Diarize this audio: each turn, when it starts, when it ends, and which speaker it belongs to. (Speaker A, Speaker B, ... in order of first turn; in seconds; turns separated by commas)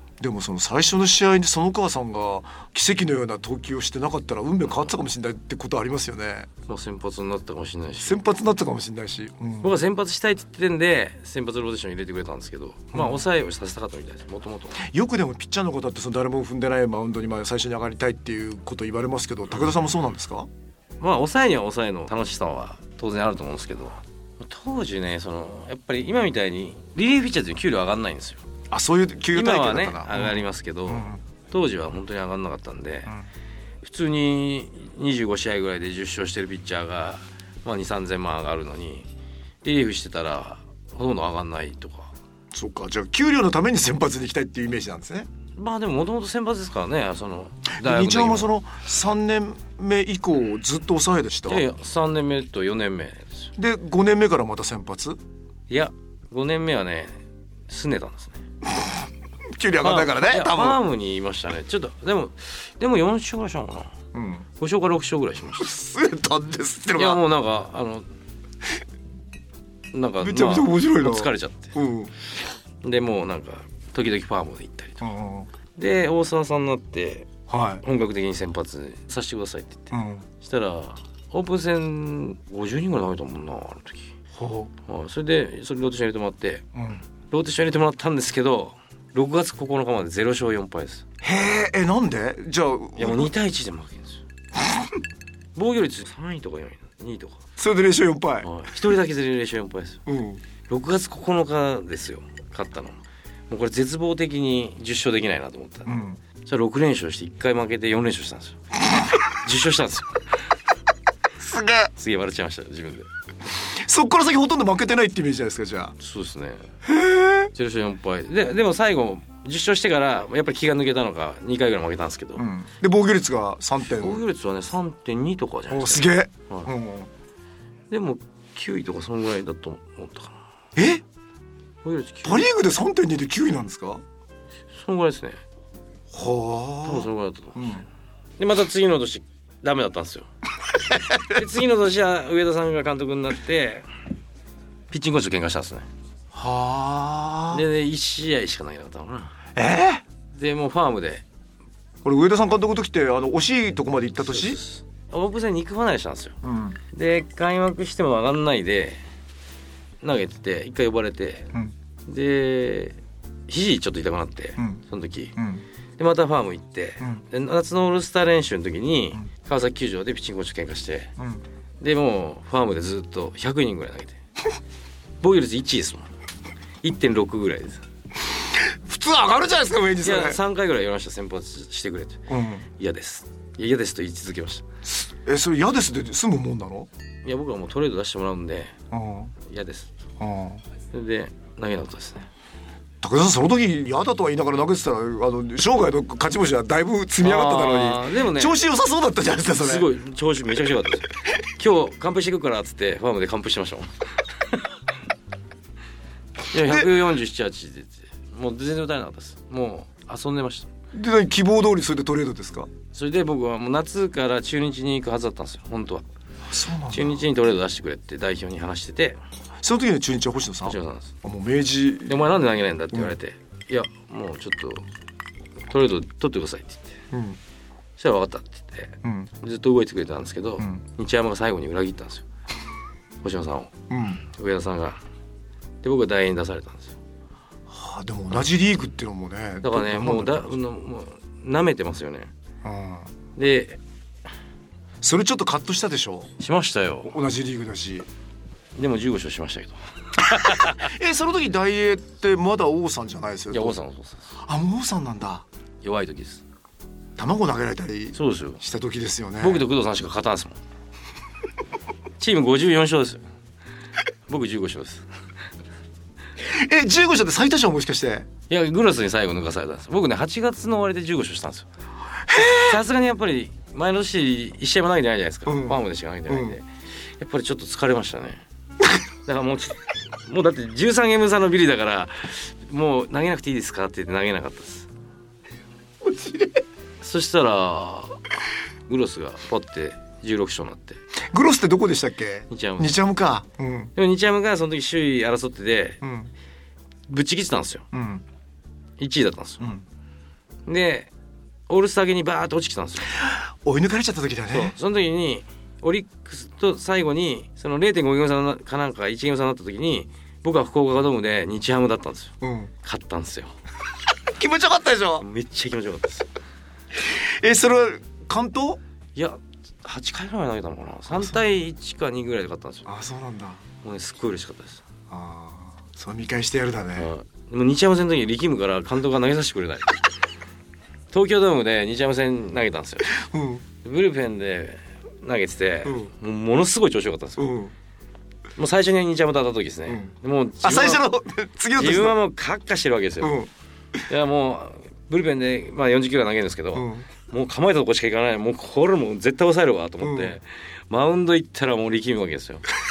Speaker A: 0.2-6.5, Speaker B: 6.7-8.2, Speaker A: 8.0-9.7, Speaker B: 9.6-14.8, Speaker A: 12.9-13.2, Speaker A: 14.8-20.5, Speaker B: 21.0-28.4, Speaker A: 28.7-31.2, Speaker B: 29.3-33.1, Speaker B: 33.8-39.1, Speaker B: 39.6-42.1, Speaker A: 42.5-45.3, Speaker B: 45.6-48.5, Speaker A: 47.8-51.7, Speaker B: 51.5-53.5, Speaker A: 53.6-55.2, Speaker B: 55.7-57.2, Speaker B: 57.7-58.4, Speaker A: 59.5-60.8, Speaker B: 59.8-63.9, Speaker A: 64.1-64.5, Speaker B: 64.6-65.7, Speaker A: 65.6-67.2, Speaker B: 67.0-68.1, Speaker B: 69.9-71.7, Speaker A: 70.2-72.1, Speaker B: 72.8-75.0, Speaker A: 75.0-75.5, Speaker B: 75.8-77.3, Speaker A: 77.5-77.8, Speaker B: 77.8-84.1, Speaker A: 79.9-80.3, Speaker A: 84.3-84.7, Speaker B: 84.9-86.7, Speaker A: 86.8-87.0, Speaker B: 87.3-91.0, Speaker A: 91.2-93.3, Speaker B: 93.0-94.2, Speaker B: 95.5-97.4, Speaker A: 97.6-98.5, Speaker B: 98.4-100.0, Speaker A: 100.1-100.4, Speaker B: 100.7-103.0, Speaker B: 103.5-105.9, Speaker A: 105.9-106.2, Speaker B: 106.4-108.6, Speaker B: 109.3-110.2, Speaker A: 111.4-111.9, Speaker B: 112.0-113.1, Speaker A: 113.5-116.0, Speaker B: 116.0-116.7, Speaker A: 116.8-117.5, Speaker B: 117.5-122.5, Speaker A: 122.4-124.2, Speaker B: 123.9-126.7, Speaker A: 125.7-127.1, Speaker B: 127.9-130.4, Speaker A: 130.8-131.0, Speaker B: 131.8-132.5, Speaker A: 132.2-134.0, Speaker B: 134.7-135.4, Speaker A: 136.1-137.8, Speaker B: 136.8-137.8, Speaker B: 138.4-140.3, Speaker B: 141.2-143.9, Speaker B: 144.9-145.9, Speaker A: 146.3-147.7, Speaker B: 147.5-149.4, Speaker A: 149.6-150.0, Speaker B: 150.3-151.2, Speaker A: 152.0-154.6, Speaker B: 154.2-156.4, Speaker A: 156.4-156.8, Speaker B: 156.9-159.0, Speaker B: 160.0-161.5, Speaker B: 162.1-165.4, Speaker A: 164.6-164.8, Speaker A: 165.4-165.6, Speaker B: 166.0-171.1, Speaker A: 171.2-171.4, Speaker B: 171.8-174.2, Speaker B: 175.2-176.1, Speaker B: 176.8-177.8, Speaker A: 178.3-180.4, Speaker B: 180.0-182.2, Speaker A: 182.3-182.7, Speaker B: 182.8-184.7, Speaker A: 185.0-186.9, Speaker B: 187.2-188.8, Speaker A: 188.9-189.3, Speaker B: 189.4-189.9, Speaker A: 190.2-190.6, Speaker B: 190.9-192.3, Speaker A: 193.0-199.9, Speaker B: 197.2-198.6, Speaker B: 199.6-204.6, Speaker B: 206.5-210.7, Speaker A: 206.6-207.0, Speaker A: 210.9-212.7, Speaker B: 212.9-216.1, Speaker A: 216.5-217.2, Speaker B: 216.9-219.2, Speaker A: 219.6-222.2, Speaker B: 220.6-221.1, Speaker B: 222.1-224.8, Speaker B: 225.7-227.0, Speaker A: 227.1-227.4, Speaker B: 228.0-232.2, Speaker A: 229.0-229.3, Speaker B: 233.2-235.0, Speaker A: 233.9-234.2, Speaker B: 235.8-237.0, Speaker A: 237.7-240.5, Speaker B: 239.6-242.3, Speaker A: 242.6-243.1, Speaker B: 243.4-243.8, Speaker A: 245.0-246.3, Speaker B: 246.4-247.1, Speaker A: 247.0-248.1, Speaker B: 248.8-250.9, Speaker A: 250.3-253.8, Speaker B: 253.5-254.4, Speaker A: 254.4-255.4, Speaker B: 255.8-256.4, Speaker A: 257.2-259.7, Speaker B: 258.1-258.6, Speaker B: 259.4-260.6, Speaker B: 262.2-263.2, Speaker B: 264.3-265.1, Speaker A: 266.4-268.3, Speaker B: 268.5-271.7, Speaker A: 272.3-272.8, Speaker B: 272.4-278.4, Speaker A: 275.5-276.6, Speaker B: 279.3-284.9, Speaker A: 286.0-286.6, Speaker B: 287.0-288.2, Speaker B: 288.9-291.0, Speaker A: 291.3-293.9, Speaker B: 292.5-293.0, Speaker B: 293.9-296.0, Speaker A: 296.0-296.3, Speaker B: 297.1-297.9, Speaker A: 297.9-298.2, Speaker B: 299.0-299.7, Speaker B: 300.7-301.1, Speaker B: 301.7-303.1, Speaker A: 303.1-304.8, Speaker B: 304.5-313.5, Speaker A: 312.4-312.7, Speaker A: 314.3-315.3, Speaker B: 315.2-316.3, Speaker A: 316.9-318.8, Speaker B: 319.2-322.9, Speaker A: 321.1-321.4, Speaker A: 322.9-323.6, Speaker B: 323.8-324.8, Speaker A: 325.1-327.1, Speaker B: 327.0-330.0, Speaker B: 331.1-333.2, Speaker A: 333.1-333.6, Speaker B: 333.8-337.6, Speaker A: 335.9-336.1, Speaker A: 337.4-337.7, Speaker B: 338.6-341.1, Speaker A: 339.9-342.2, Speaker B: 341.8-343.4, Speaker A: 343.2-343.5, Speaker B: 344.1-352.7, Speaker A: 346.7-347.1, Speaker A: 350.0-350.4